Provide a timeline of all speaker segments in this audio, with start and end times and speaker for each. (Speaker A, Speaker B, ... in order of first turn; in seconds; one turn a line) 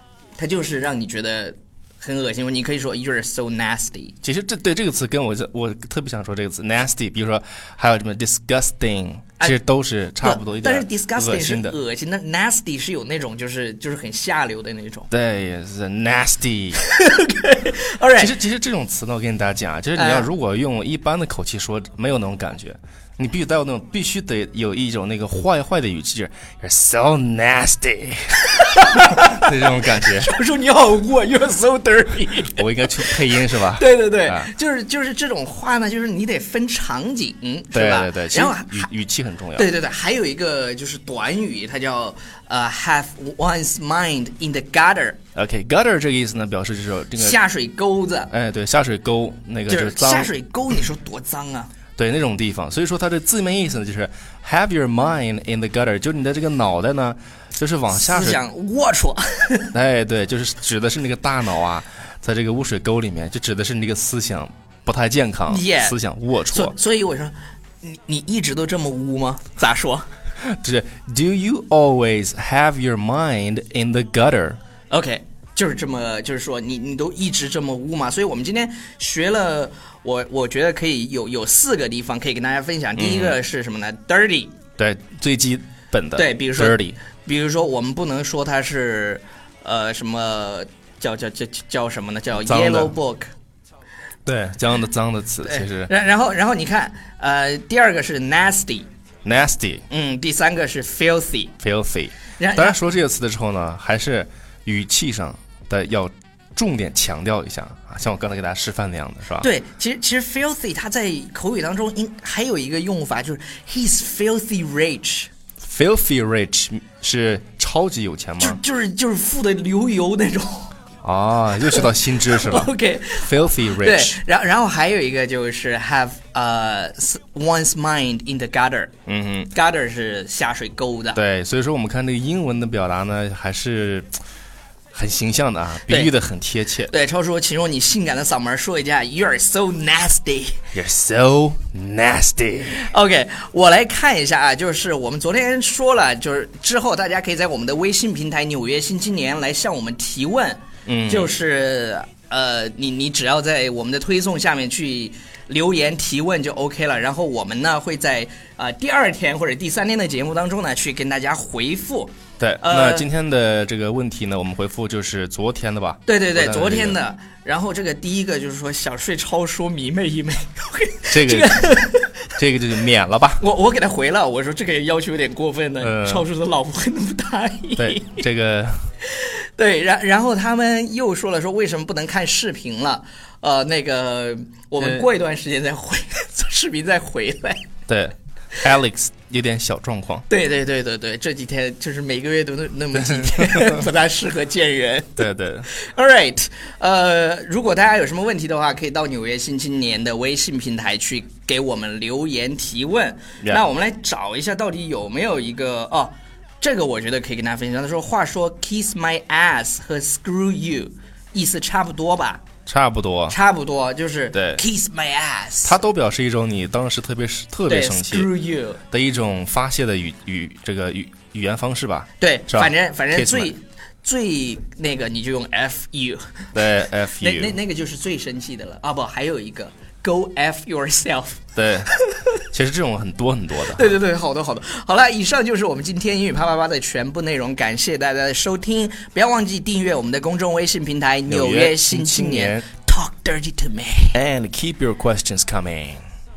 Speaker A: 0.4-4.2
Speaker B: 4.2-11.8
Speaker A: 10.2-15.1
Speaker B: 15.1-16.8
Speaker A: 16.8-18.3
Speaker B: 18.1-30.3
Speaker A: 19.9-20.3
Speaker A: 28.5-38.9
Speaker B: 32.4-34.5
Speaker B: 37.7-39.7
Speaker A: 39.5-45.2
Speaker B: 45.3-47.4
Speaker A: 47.1-48.3
Speaker B: 48.3-50.3
Speaker A: 49.7-51.7
Speaker B: 52.0-58.4
Speaker A: 57.9-59.7
Speaker B: 59.7-66.7
Speaker A: 65.5-66.0
Speaker A: 66.5-70.1
Speaker B: 70.4-74.6
Speaker A: 74.9-84.5
Speaker B: 83.0-83.4
Speaker B: 84.8-87.0
Speaker A: 86.2-93.3
Speaker B: 92.4-92.9
Speaker B: 94.2-95.9
Speaker A: 95.4-98.9
Speaker B: 99.2-99.8
Speaker A: 99.9-101.5
Speaker B: 101.6-109.5
Speaker A: 102.4-102.8
Speaker A: 109.4-115.3
Speaker B: 115.6-118.6
Speaker A: 118.4-120.7
Speaker B: 121.0-124.2
Speaker A: 121.7-128.9
Speaker B: 129.1-129.5
Speaker A: 129.5-131.2
Speaker B: 131.1-134.1
Speaker B: 134.9-136.9
Speaker A: 136.9-140.6
Speaker B: 140.7-142.9
Speaker A: 142.8-163.1
Speaker B: 150.8-151.4
Speaker B: 162.4-167.0
Speaker A: 166.1-172.3
Speaker B: 171.1-171.8
Speaker B: 172.4-173.4
Speaker A: 173.4-178.2
Speaker B: 175.8-176.2
Speaker B: 177.8-178.8
Speaker A: 179.1-187.6
Speaker B: 184.8-185.1
Speaker B: 187.9-190.2
Speaker A: 190.3-212.4
Speaker B: 192.9-193.9
Speaker B: 195.2-195.7
Speaker B: 212.7-213.3
Speaker A: 213.3-215.8
Speaker B: 214.3-214.6
Speaker B: 215.6-218.3
Speaker A: 217.7-218.8
Speaker B: 218.9-223.5
Speaker A: 222.2-226.5
Speaker B: 226.5-227.6
Speaker A: 227.2-232.2
Speaker B: 231.6-231.9
Speaker B: 232.5-234.0
Speaker A: 233.7-244.2
Speaker B: 241.3-242.7
Speaker B: 244.1-246.1